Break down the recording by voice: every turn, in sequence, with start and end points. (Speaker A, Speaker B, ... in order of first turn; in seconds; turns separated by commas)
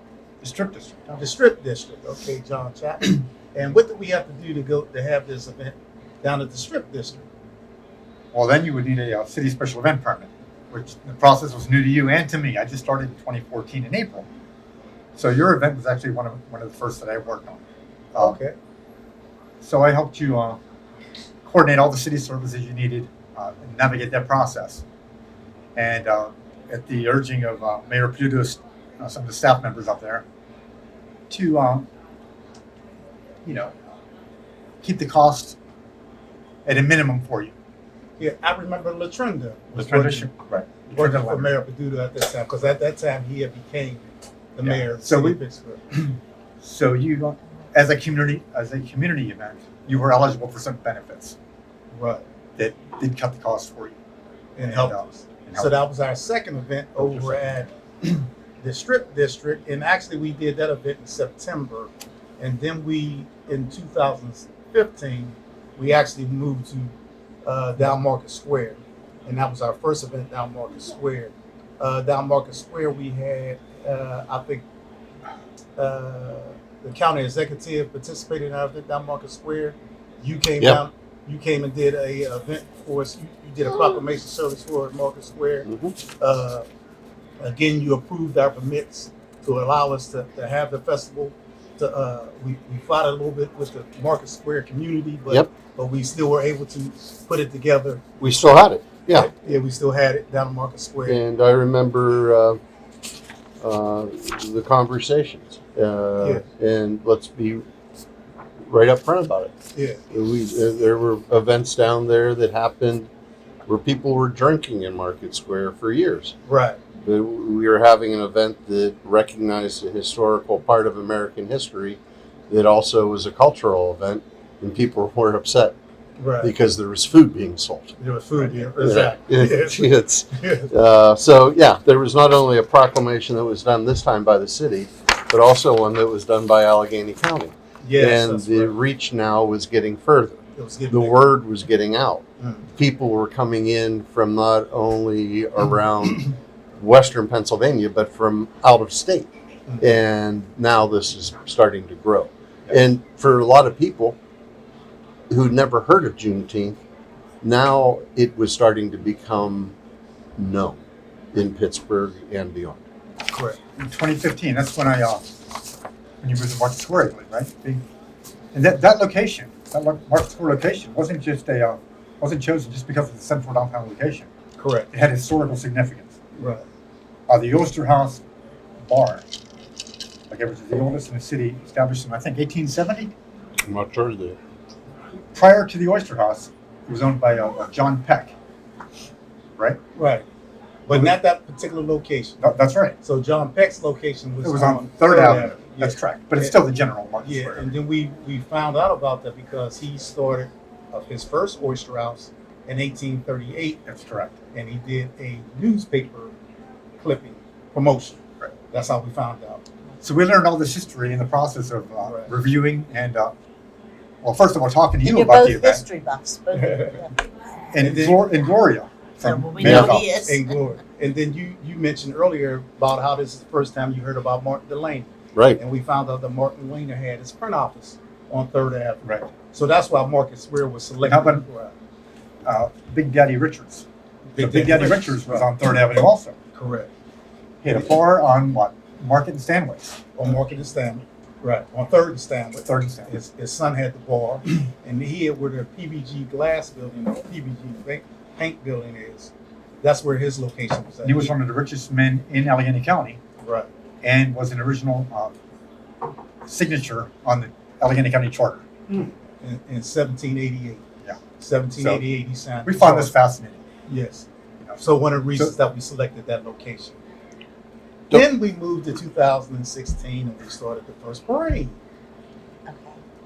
Speaker A: 0.4-1.2, Speaker B: 1.1-7.3, Speaker A: 8.3-14.3, Speaker A: 15.2-17.6, Speaker B: 18.2-18.5, Speaker A: 19.6-20.6, Speaker A: 21.4-24.8, Speaker A: 25.8-30.2, Speaker A: 31.3-31.9, Speaker A: 33.4-33.7, Speaker A: 34.8-35.6, Speaker A: 36.6-37.5, Speaker B: 38.2-40.3, Speaker A: 39.8-41.5, Speaker B: 40.9-46.0, Speaker A: 44.6-45.4, Speaker A: 46.6-51.4, Speaker B: 51.9-52.2, Speaker A: 52.6-54.0, Speaker B: 54.6-66.9, Speaker A: 54.6-55.7, Speaker A: 57.0-57.4, Speaker B: 67.4-74.6, Speaker B: 75.8-86.7, Speaker C: 85.7-86.0, Speaker B: 87.4-98.0, Speaker C: 98.2-99.3, Speaker B: 99.1-101.2, Speaker C: 101.0-102.6, Speaker C: 103.6-107.6, Speaker C: 108.7-109.5, Speaker B: 109.7-110.0, Speaker C: 110.1-113.1, Speaker C: 113.7-116.3, Speaker B: 116.5-116.8, Speaker C: 117.0-125.7, Speaker B: 126.2-126.5, Speaker C: 126.4-128.0, Speaker B: 128.0-130.7, Speaker C: 128.8-140.4, Speaker B: 137.8-138.8, Speaker B: 140.5-141.2, Speaker C: 140.9-142.2, Speaker B: 142.4-142.7, Speaker C: 142.8-149.3, Speaker B: 149.7-149.9, Speaker C: 149.8-154.2, Speaker C: 155.3-156.8, Speaker C: 157.4-159.7, Speaker C: 160.4-160.8, Speaker C: 161.3-162.8, Speaker B: 163.3-163.6, Speaker A: 163.8-165.2, Speaker A: 166.2-167.8, Speaker A: 168.5-174.3, Speaker B: 174.6-174.9, Speaker A: 174.9-176.1, Speaker B: 176.3-176.6, Speaker A: 177.3-178.2, Speaker A: 178.8-179.2, Speaker A: 180.3-183.1, Speaker C: 183.6-184.4, Speaker A: 185.3-188.3, Speaker B: 189.9-190.2, Speaker B: 190.8-192.4, Speaker A: 192.4-193.0, Speaker B: 193.0-196.6, Speaker A: 194.4-197.7, Speaker B: 197.2-203.8, Speaker A: 203.8-204.4, Speaker B: 204.5-206.3, Speaker B: 207.0-209.6, Speaker A: 210.0-213.3, Speaker B: 212.0-212.3, Speaker A: 214.2-215.8, Speaker D: 215.0-217.1, Speaker B: 216.6-217.0, Speaker A: 217.7-220.2, Speaker B: 217.8-218.3, Speaker D: 219.2-220.4, Speaker C: 219.6-219.9, Speaker B: 219.6-231.7, Speaker C: 225.3-225.6, Speaker A: 229.0-229.3, Speaker A: 231.0-231.4, Speaker A: 232.4-233.8, Speaker B: 234.3-235.5, Speaker A: 234.4-236.3, Speaker B: 236.5-236.9, Speaker A: 237.6-240.2, Speaker B: 240.2-251.3, Speaker A: 242.6-243.1, Speaker A: 251.0-253.2, Speaker B: 253.4-253.7, Speaker A: 254.0-255.3, Speaker A: 256.4-258.6, Speaker B: 258.9-260.8, Speaker B: 261.4-263.1, Speaker A: 261.8-262.0, Speaker A: 262.6-263.6, Speaker B: 263.9-264.3, Speaker B: 264.8-267.0, Speaker B: 268.1-271.8, Speaker D: 272.7-273.0